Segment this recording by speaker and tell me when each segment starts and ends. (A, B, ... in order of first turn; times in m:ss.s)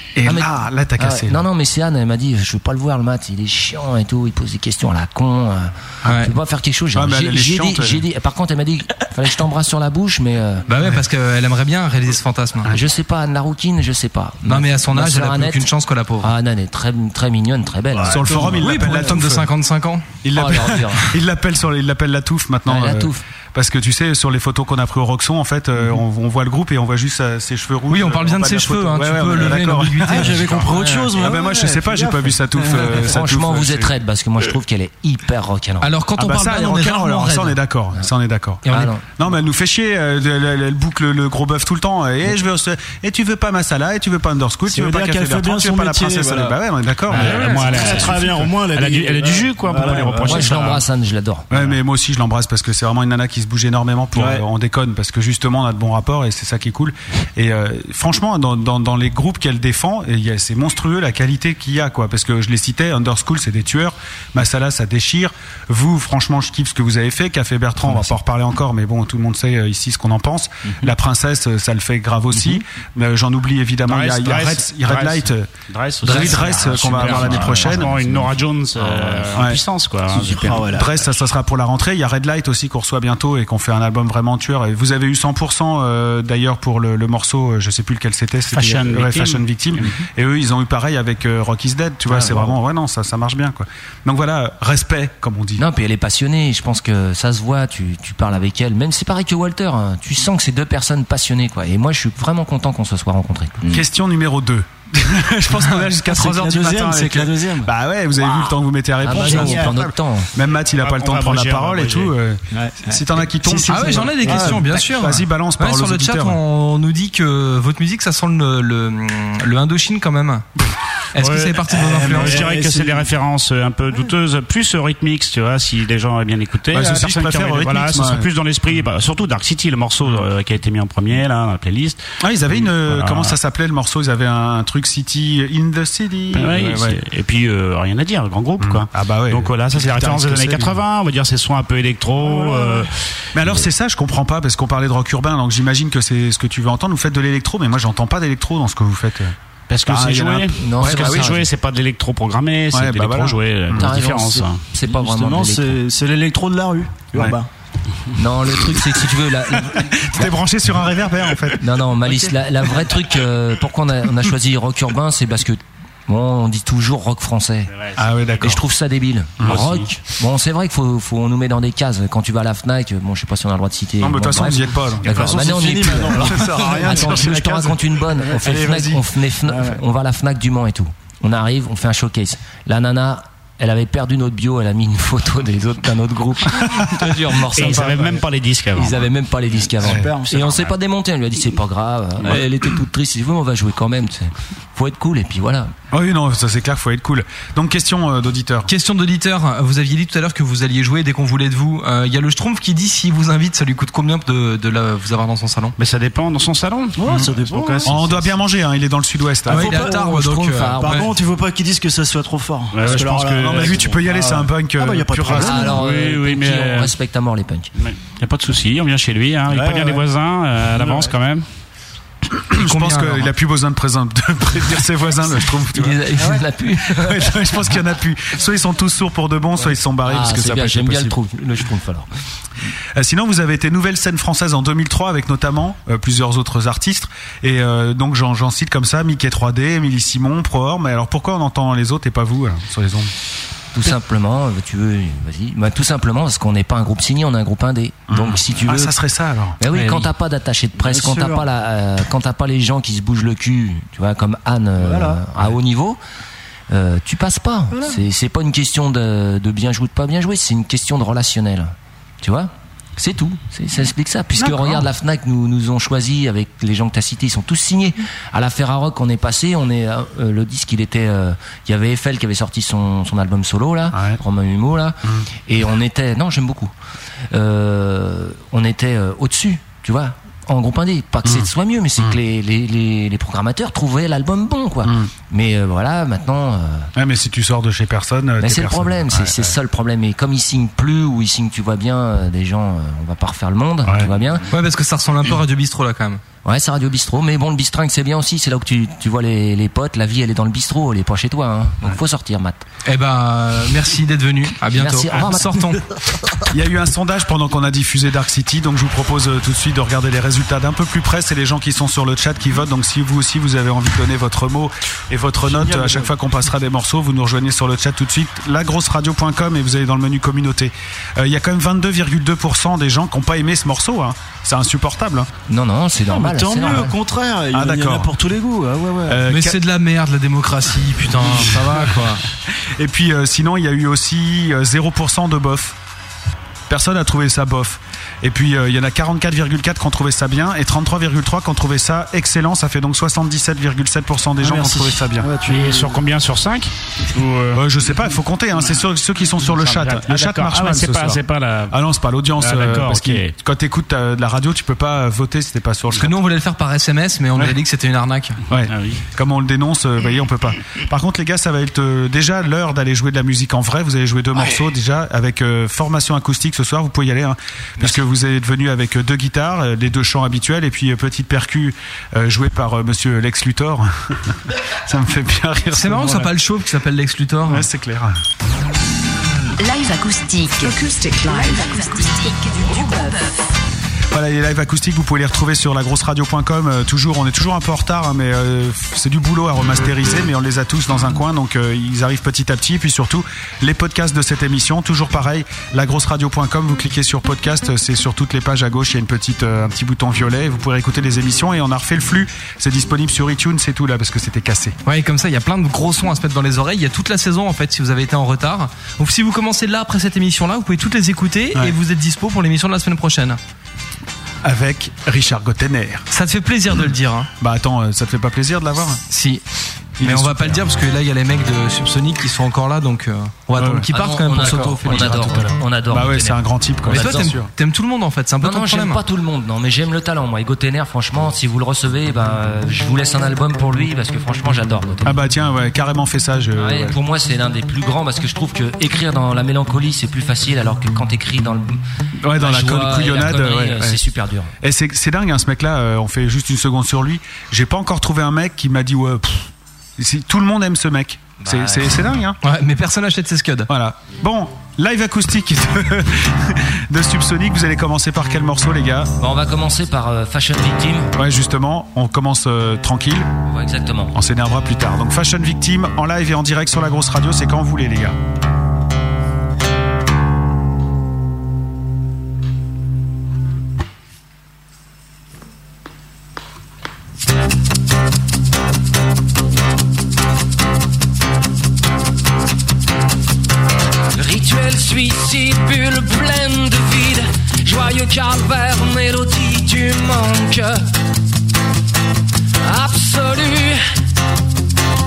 0:00.2-0:01.4 A
0:00.2-0:10.6 B
0:06.0-0:06.3 C
0:07.0-0:08.0 A
0:10.7-0:12.7 C
0:12.7-0:18.6 B
0:14.4-0:16.3 C
0:17.9-0:18.8 D
0:18.1-0:19.5 A
0:18.5-0:20.1 C
0:20.2-0:33.9 A
0:20.3-0:21.1 B
0:22.7-0:23.2 B
0:27.9-0:30.9 C
0:30.1-0:33.0 D
0:30.8-0:31.1 B
0:33.0-0:35.9 B
0:35.8-0:37.6 C
0:36.2-0:48.2 A
0:38.6-0:38.9 C
0:38.7-0:39.0 B
0:44.7-0:46.6 D
0:47.1-0:48.0 C
0:47.1-0:50.5 D
0:47.1-0:50.8 E
0:50.2-0:51.5 B
0:51.5-1:15.5 A
0:54.2-0:54.4 D
1:07.9-1:08.1 B
1:13.8-1:20.8 E
1:16.0-1:18.0 A
1:16.1-1:18.3 B
1:18.8-1:19.4 B
1:19.4-1:19.6 A
1:20.1-1:20.9 D
1:20.7-1:35.6 A
1:28.5-1:29.9 E
1:35.6-1:43.7 B
1:43.7-1:56.4 A
1:46.1-1:48.5 D
1:49.0-1:50.3 B
1:49.1-1:49.8 D
1:50.7-1:52.1 E
1:52.5-1:54.8 D
1:53.7-2:00.5 C
2:01.1-2:02.5 C
2:01.2-2:13.4 E
2:01.7-2:03.1 D
2:06.7-2:08.3 A
2:12.2-2:17.0 A
2:16.3-2:22.9 E
2:18.6-2:20.7 A
2:22.2-2:22.8 D
2:23.3-2:31.3 A
2:29.7-2:34.6 E
2:30.6-2:31.5 B
2:32.7-2:33.9 A
2:33.8-2:35.8 B
2:34.8-2:37.5 D
2:38.1-2:40.3 B
2:39.8-2:41.6 A
2:41.6-2:47.7 B
2:48.0-2:48.6 A
2:48.4-3:08.2 B
2:49.4-2:49.9 E
2:54.0-2:57.8 A
2:55.0-2:57.7 D
2:58.3-2:58.7 D
2:58.4-2:59.1 A
2:59.4-2:59.8 D
3:07.5-3:09.0 E
3:08.8-3:15.7 B
3:09.7-3:10.7 D
3:09.8-3:10.1 A
3:15.9-3:18.7 A
3:18.7-3:25.8 C
3:25.8-3:28.1 E
3:27.0-3:28.3 D
3:27.8-3:29.8 A
3:29.4-3:31.1 C
3:29.5-3:30.0 D
3:29.7-3:31.1 B
3:30.8-3:35.8 D
3:32.7-3:33.8 E
3:32.8-3:35.7 A
3:35.3-3:37.7 B
3:35.7-3:36.9 E
3:37.8-3:41.4 E
3:39.5-3:40.0 D
3:40.7-3:41.1 D
3:42.5-3:46.0 A
3:42.6-3:43.3 C
3:45.7-3:47.4 B
3:46.2-3:46.4 D
3:46.9-3:51.2 A
3:50.0-3:52.1 B
3:53.0-4:03.1 A
4:03.7-4:08.9 B
4:08.1-4:09.6 A
4:09.6-4:16.0 B
4:09.7-4:10.1 C
4:10.8-4:11.4 D
4:14.8-4:15.2 D
4:16.7-4:36.7 B
4:24.4-4:24.8 A
4:33.9-4:34.2 A
4:37.3-4:46.9 B
4:44.8-4:45.1 A
4:47.0-4:49.6 A
4:48.4-4:54.5 B
4:54.5-4:56.2 C
4:56.4-5:02.6 B
5:02.8-5:05.8 C
5:04.7-5:05.6 B
5:06.5-5:25.3 A
5:15.4-5:16.1 D
5:25.5-5:27.0 B
5:26.1-5:29.2 D
5:27.5-5:28.1 A
5:29.1-5:29.6 A
5:29.3-5:32.2 C
5:32.8-5:35.8 A
5:36.7-5:45.3 A
5:44.4-5:46.0 D
5:45.4-5:47.6 E
5:47.6-5:56.2 A
5:49.4-5:51.8 E
5:52.4-5:53.3 E
5:55.9-5:58.4 C
5:58.5-6:14.4 A
5:58.7-5:59.0 E
6:14.9-6:16.3 A
6:15.7-6:17.7 C
6:17.5-6:18.1 A
6:19.6-6:23.3 F
6:24.1-6:44.8 A
6:44.9-6:53.4 C
6:54.4-6:56.1 A
6:56.1-6:57.3 C
6:57.4-6:59.0 A
6:59.1-6:59.4 C
7:00.0-7:00.7 A
7:00.0-7:05.4 C
7:03.6-7:07.5 A
7:03.9-7:07.4 B
7:06.9-7:09.0 C
7:08.4-7:15.1 B
7:15.0-7:17.0 A
7:16.6-7:21.8 B
7:22.2-7:24.0 A
7:22.4-7:24.5 B
7:24.6-7:32.4 A
7:31.4-7:32.0 B
7:32.4-7:33.7 C
7:33.7-7:39.1 A
7:39.2-7:41.1 B
7:41.2-7:43.3 A
7:43.4-7:44.2 B
7:44.1-7:48.2 A
8:04.1-8:10.8 G
8:12.6-8:13.8 G